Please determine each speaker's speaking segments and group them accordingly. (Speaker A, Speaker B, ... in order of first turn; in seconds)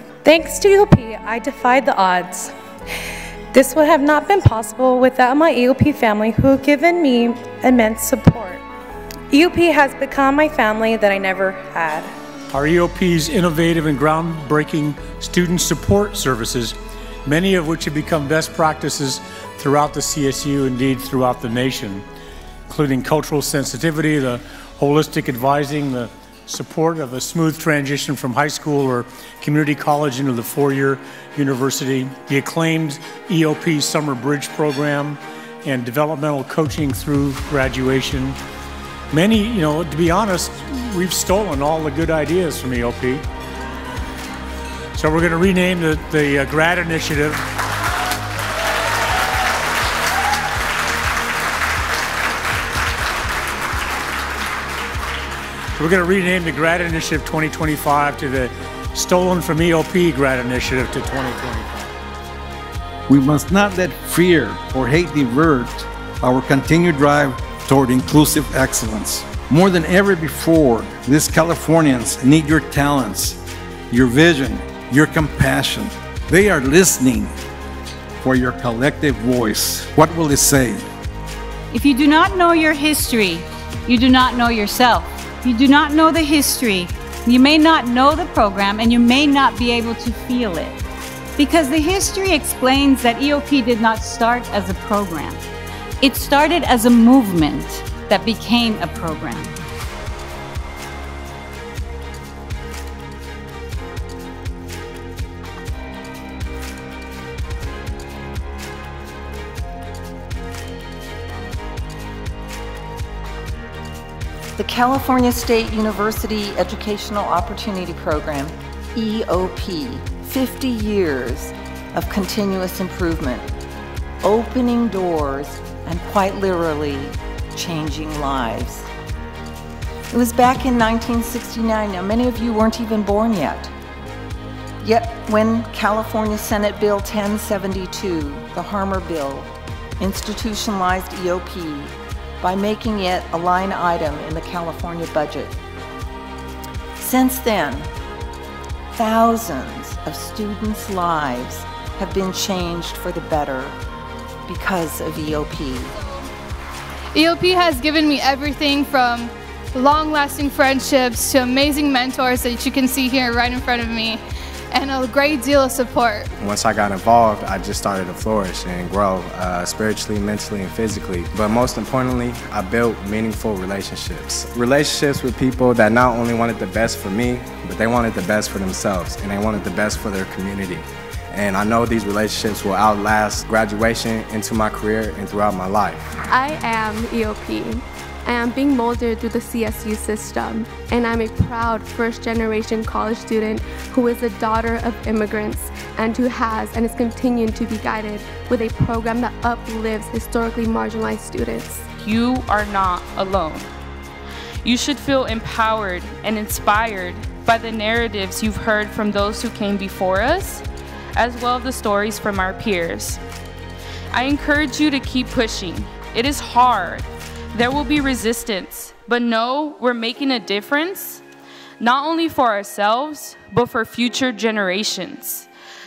Speaker A: 0.2-2.5, 3.5-8.6, 9.3-12.1
Speaker B: 12.5-22.0, 22.7-38.4, 39.1-43.2, 44.9-47.4, 55.8-61.9
Speaker C: 63.1-73.4, 73.9-77.4, 78.2-80.9
Speaker D: 81.7-90.8, 91.4-95.4, 96.0-99.5
Speaker E: 114.5-123.5, 124.2-128.9, 130.1-133.7, 134.8-145.6, 147.0-147.9, 148.9-153.8, 154.5-155.9
Speaker F: 157.1-166.3
Speaker G: 166.4-186.2
Speaker H: 186.3-201.8
Speaker I: 202.0-203.7, 204.6-213.2, 214.1-221.2, 221.8-225.5